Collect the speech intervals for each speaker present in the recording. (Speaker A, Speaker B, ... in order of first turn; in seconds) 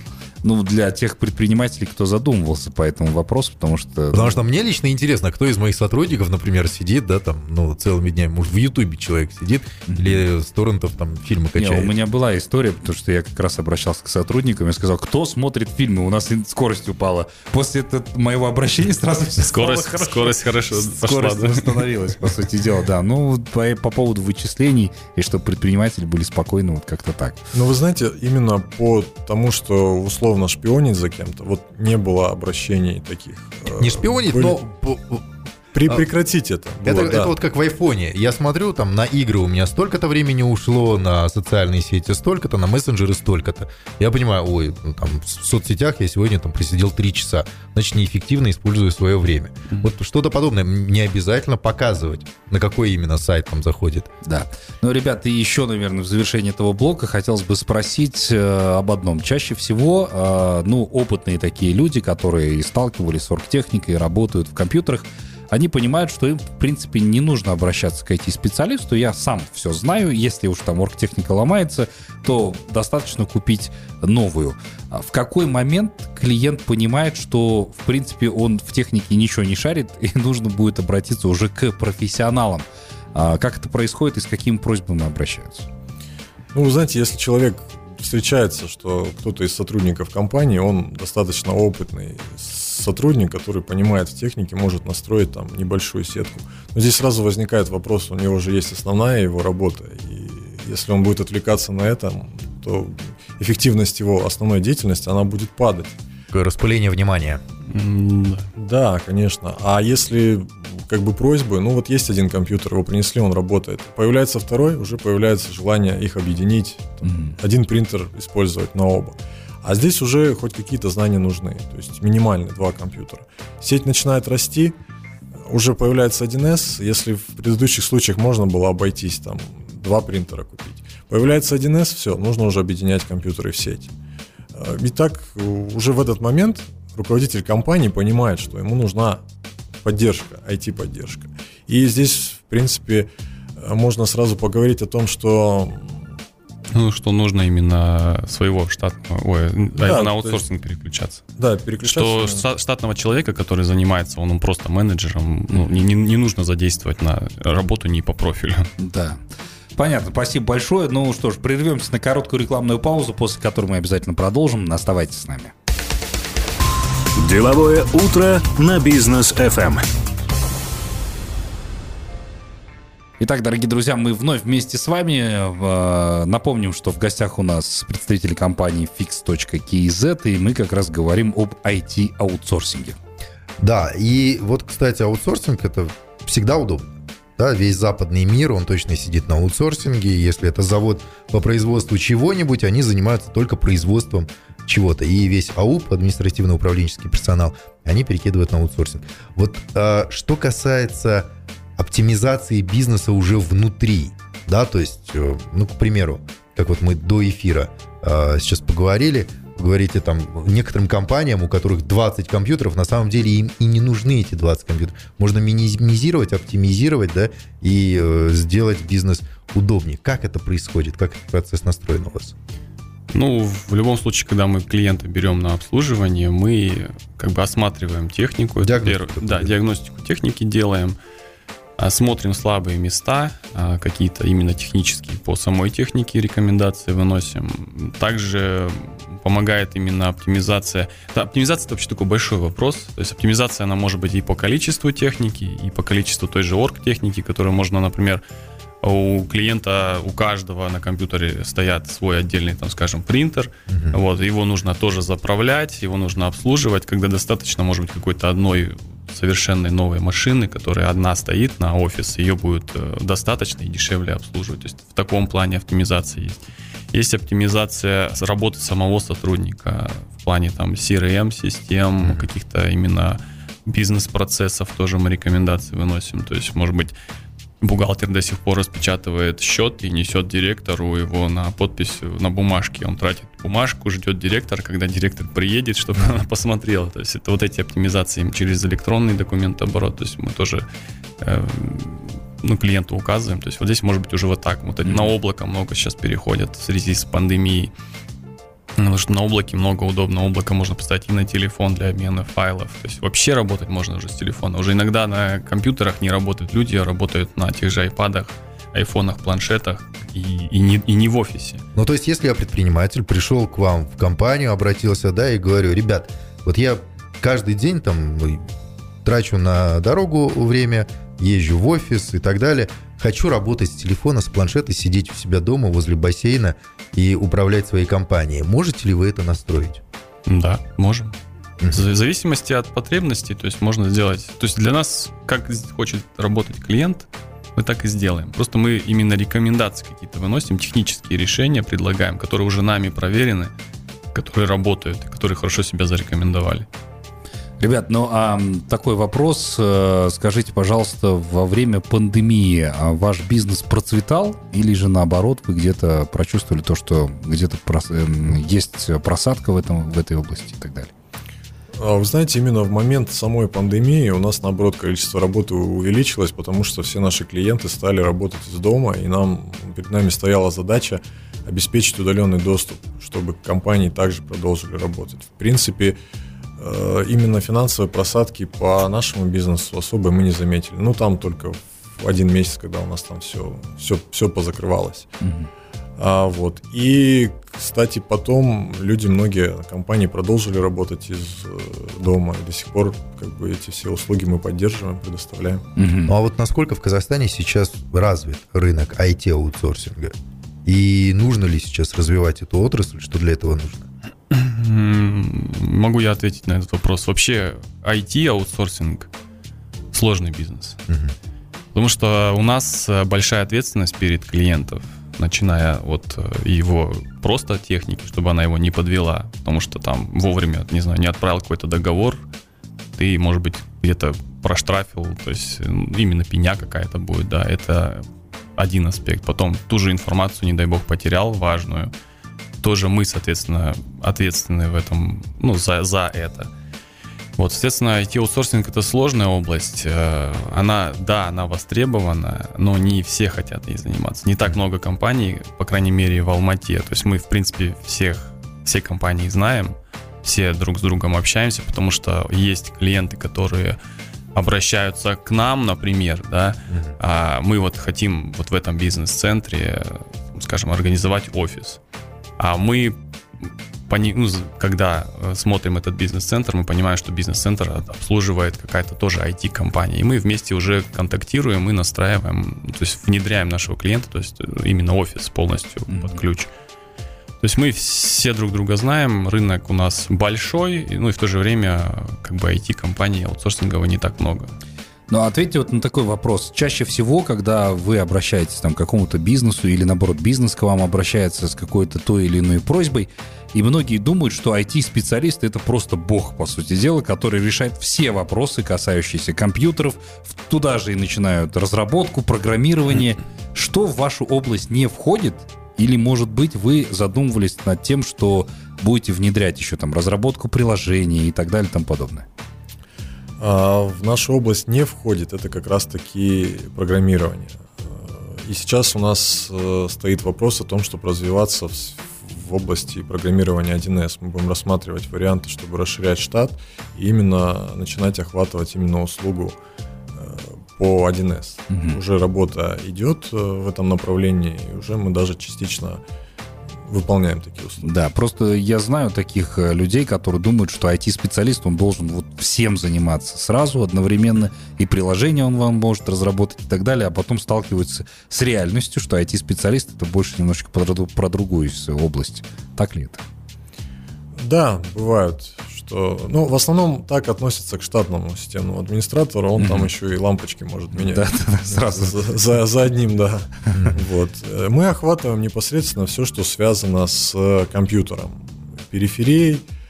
Speaker A: 0.4-4.4, 9.9-10.2, 11.6-27.4, 54.2-85.7, 117.1-117.4, 158.8-159.2, 159.8-165.5, 173.2-183.0, 347.6-360.9, 385.2-385.5, 395.8-396.1, 475.9-476.2, 485.1-512.3, 531.7-532.0, 537.8-553.2, 559.6-559.9, 560.9-562.2
Speaker B: 4.1-11.9, 33.8-35.2, 36.8-54.1, 106.3-107.4, 183.6-222.3, 228.6-229.5, 253.7-254.0, 272.0-272.3, 311.8-318.5, 319.1-329.8, 396.1-400.1, 400.6-403.9, 410.9-411.1, 563.7-564.0
Speaker C: 19.4-21.9, 107.7-108.5, 146.7-151.2, 151.8-158.7, 223.1-231.0, 231.8-248.2, 248.8-276.9, 277.6-290.7, 291.2-297.7, 298.8-311.6, 330.3-331.1, 331.7-343.5, 344.1-346.7, 404.3-409.1, 409.9-410.8, 411.7-422.2, 422.9-428.0, 428.6-431.9, 432.6-436.5, 437.4-453.8, 454.3-461.8, 462.4-463.0, 463.9-476.5, 477.4-484.6
Speaker D: 27.5-34.6, 35.7-37.4, 86.5-106.0, 108.6-124.8, 125.5-133.9, 134.6-139.2, 139.8-146.0, 149.8-150.5, 151.4-152.4, 361.8-376.0, 376.6-385.1, 386.0-395.6, 513.4-529.6, 530.1-536.0, 536.9-538.0, 554.4-569.7
Speaker E: 167.2-169.8